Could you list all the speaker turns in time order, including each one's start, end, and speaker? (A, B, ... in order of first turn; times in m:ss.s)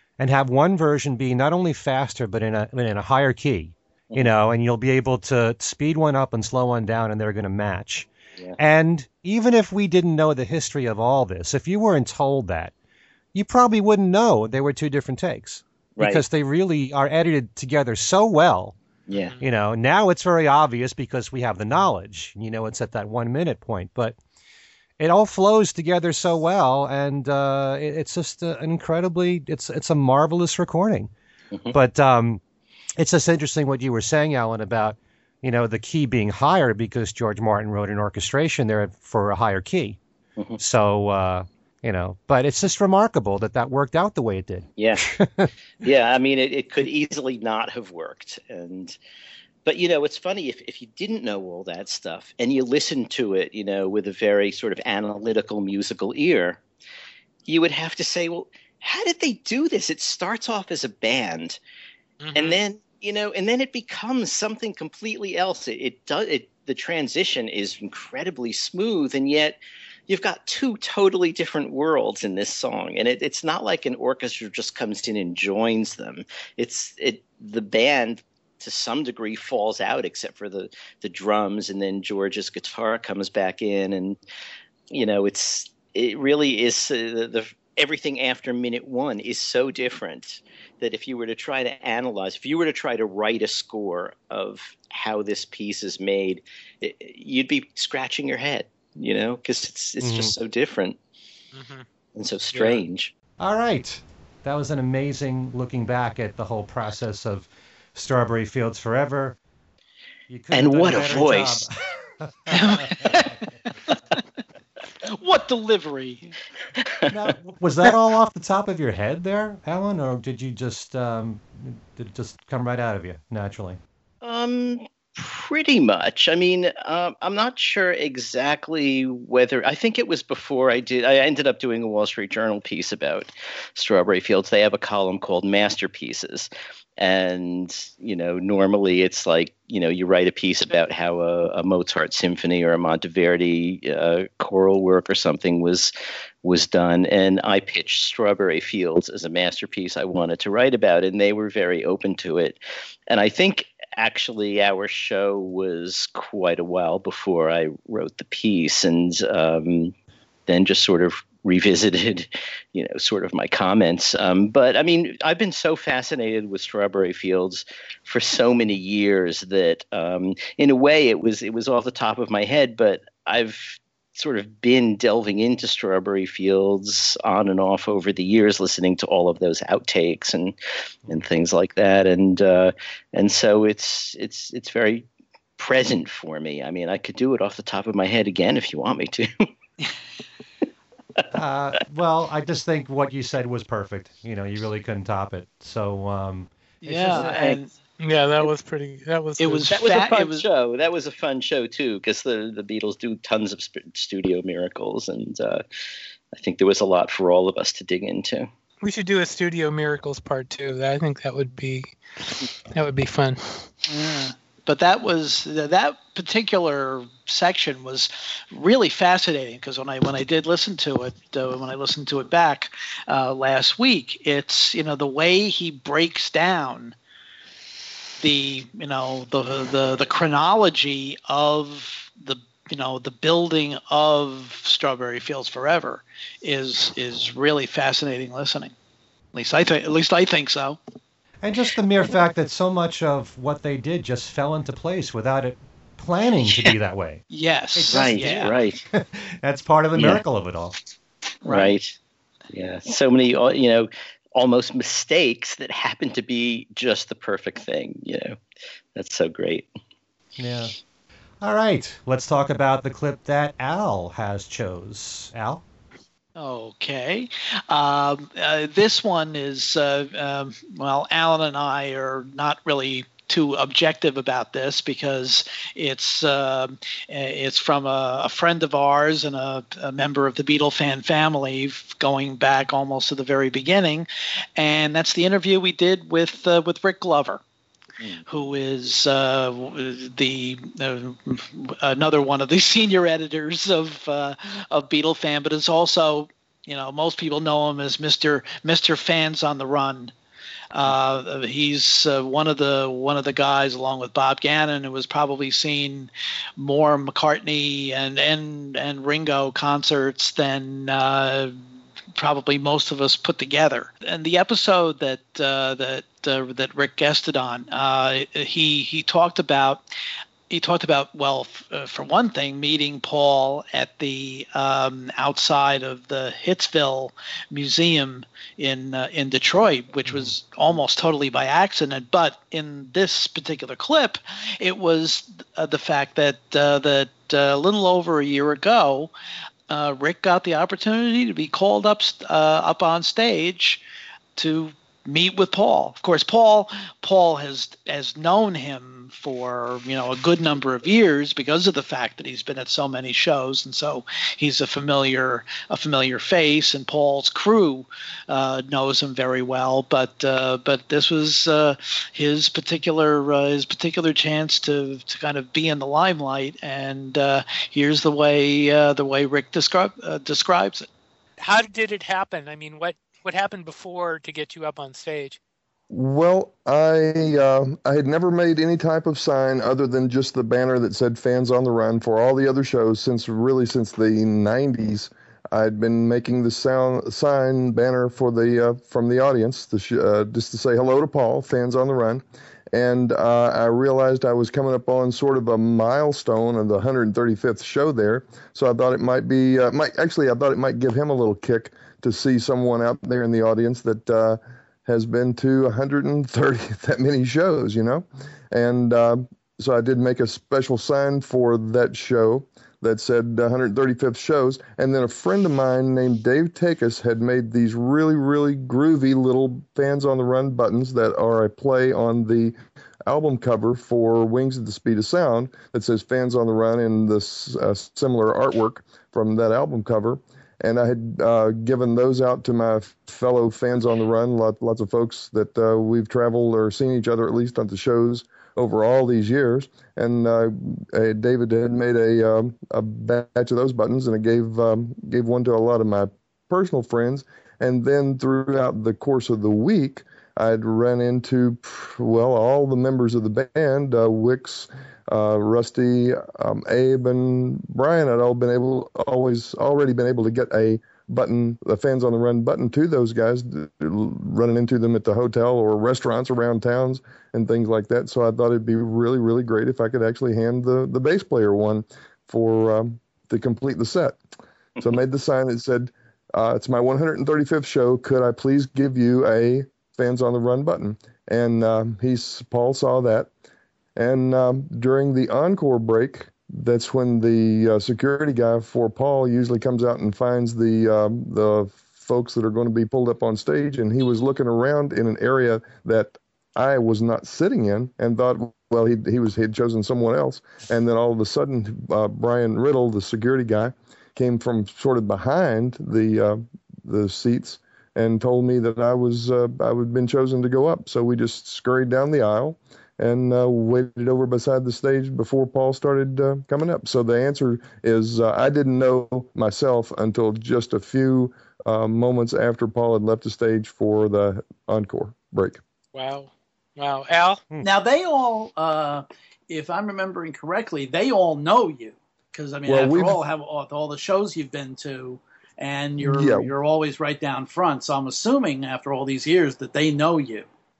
0:00.2-0:12.7 A
0:13.3-0:18.8 A
0:16.0-0:16.2 B
0:19.1-0:19.4 B
0:19.1-0:19.4 C
0:19.4-0:24.2 A
0:25.0-0:31.1 A
0:31.7-0:32.4 A
0:33.0-0:40.0 A
0:40.6-0:45.5 A
0:44.8-0:45.0 B
0:45.8-0:49.0 B
0:49.6-0:56.6 B
0:57.4-1:01.6 B
1:02.2-1:02.6 C
1:02.3-1:24.2 B
1:24.9-1:41.0 B
1:40.0-1:40.3 A
1:41.5-1:41.8 C
1:42.1-1:43.1 B
1:42.5-1:42.8 C
1:43.4-1:49.4 A
1:50.3-1:53.3 A
1:50.5-1:51.6 B
1:52.5-1:53.3 D
1:55.0-1:56.3 D
1:56.8-1:57.1 B
1:57.1-2:03.8 A
2:04.2-2:25.9 B
2:26.4-2:32.6 B
2:33.1-2:39.9 B
2:40.5-3:00.6 B
3:01.1-3:05.1 B
3:05.6-3:09.3 B
3:11.3-3:16.5 A
3:16.8-3:17.7 D
3:17.1-3:17.6 B
3:17.1-3:17.4 A
3:18.0-3:19.7 C
3:19.4-3:20.4 D
3:19.7-3:25.6 B
3:26.3-3:28.5 B
3:28.8-3:33.7 C
3:33.9-3:46.9 D
3:48.2-3:58.7 D
3:59.3-4:00.8 D
4:01.4-4:07.2 A
4:06.5-4:06.7 D
4:07.3-4:08.5 D
4:07.7-4:10.8 A
4:07.9-4:08.8 B
4:10.0-4:10.2 B
4:11.4-4:11.7 D
4:11.4-4:11.9 B
4:12.5-4:18.4 B
4:18.9-4:19.7 B
4:20.4-4:20.7 A
4:21.4-4:25.6 A
4:26.4-4:47.4 D
4:48.3-5:00.1 D
5:00.7-5:11.6 D
5:12.1-5:19.8 D
5:20.5-5:39.1 D
5:39.7-5:43.8 D
5:44.4-6:10.8 D
6:11.4-6:15.4 C
6:15.9-7:02.5 E
7:03.1-7:54.2 E
7:54.8-8:03.3 E
8:04.0-8:45.6 E
8:45.9-8:47.4 C
8:47.6-9:00.5 F
8:52.7-8:53.2 E
8:56.0-8:56.5 E